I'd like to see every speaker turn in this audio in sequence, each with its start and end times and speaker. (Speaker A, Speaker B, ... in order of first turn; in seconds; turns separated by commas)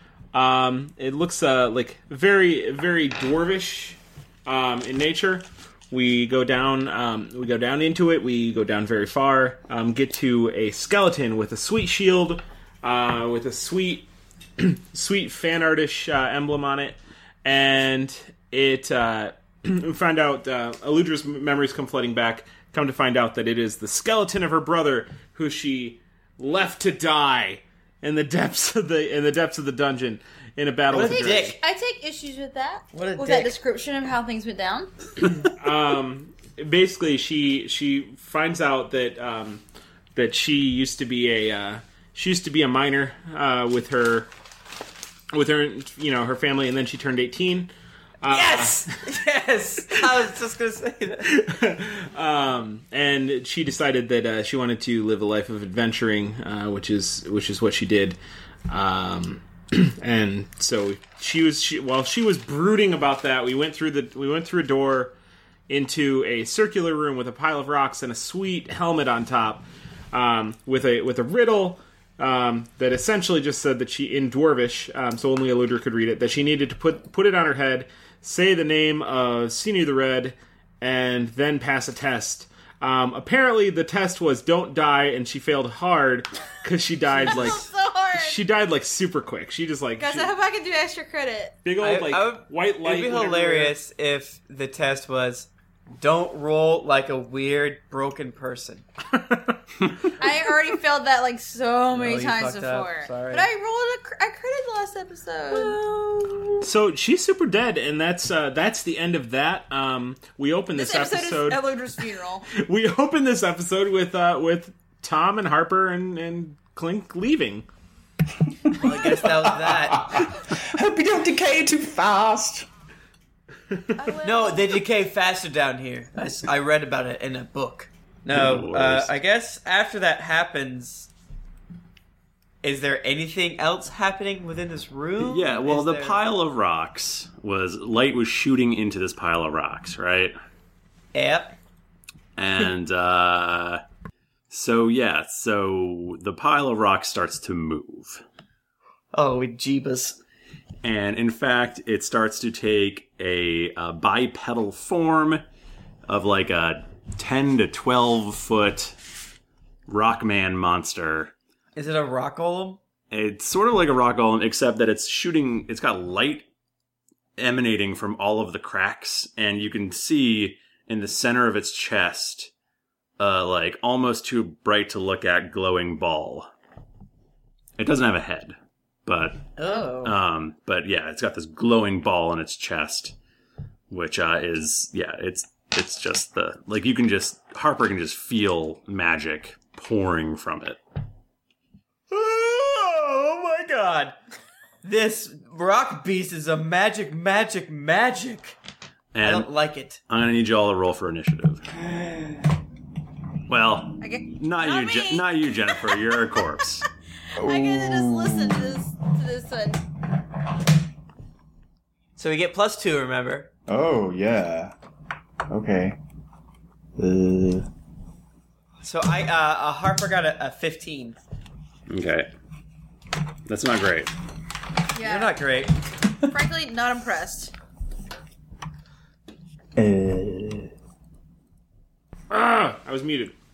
Speaker A: 0.3-14.1, Speaker A: 14.6-31.6, Speaker B: 30.9-31.6, Speaker C: 31.0-34.9, Speaker B: 32.9-33.5, Speaker A: 35.4-39.6, Speaker A: 40.1-44.3, Speaker A: 45.3-49.0, Speaker B: 48.3-51.3, Speaker A: 51.2-58.2, Speaker A: 58.7-65.1, Speaker A: 65.7-90.3, Speaker C: 87.1-88.4, Speaker C: 90.0-91.6, Speaker A: 91.6-93.8, Speaker B: 91.8-95.5, Speaker B: 96.0-98.8, Speaker A: 99.1-99.6, Speaker C: 100.2-105.9, Speaker B: 101.9-103.5, Speaker B: 105.5-106.5, Speaker A: 106.6-111.6, Speaker C: 110.7-112.5, Speaker A: 112.5-117.7, Speaker B: 118.7-120.3, Speaker D: 119.0-122.7, Speaker C: 124.0-124.8, Speaker B: 124.2-131.1, Speaker E: 128.3-129.1, Speaker B: 132.6-136.2, Speaker E: 135.2-140.3, Speaker B: 141.1-141.6, Speaker E: 142.4-143.8, Speaker E: 144.5-148.2, Speaker B: 149.1-150.2, Speaker E: 150.8-155.4, Speaker E: 156.1-159.0, Speaker E: 159.9-161.3, Speaker B: 161.8-162.8, Speaker E: 163.1-166.5, Speaker E: 167.4-172.5, Speaker E: 173.2-176.5, Speaker E: 177.8-183.2, Speaker B: 179.6-180.2, Speaker E: 183.9-190.8, Speaker B: 192.1-194.2, Speaker B: 194.8-198.6, Speaker E: 199.1-199.5, Speaker B: 199.2-200.0, Speaker E: 200.1-201.6, Speaker D: 201.7-202.4, Speaker E: 203.5-206.8, Speaker C: 204.0-205.7, Speaker C: 207.4-209.8, Speaker D: 207.4-208.8, Speaker B: 212.2-213.5, Speaker D: 213.7-214.7, Speaker D: 215.5-216.0, Speaker D: 217.0-217.7, Speaker B: 218.8-221.2, Speaker E: 221.9-222.3, Speaker E: 223.5-224.1, Speaker C: 224.9-225.4, Speaker B: 225.0-225.8, Speaker C: 226.3-227.5, Speaker D: 229.8-230.7, Speaker A: 232.3-233.3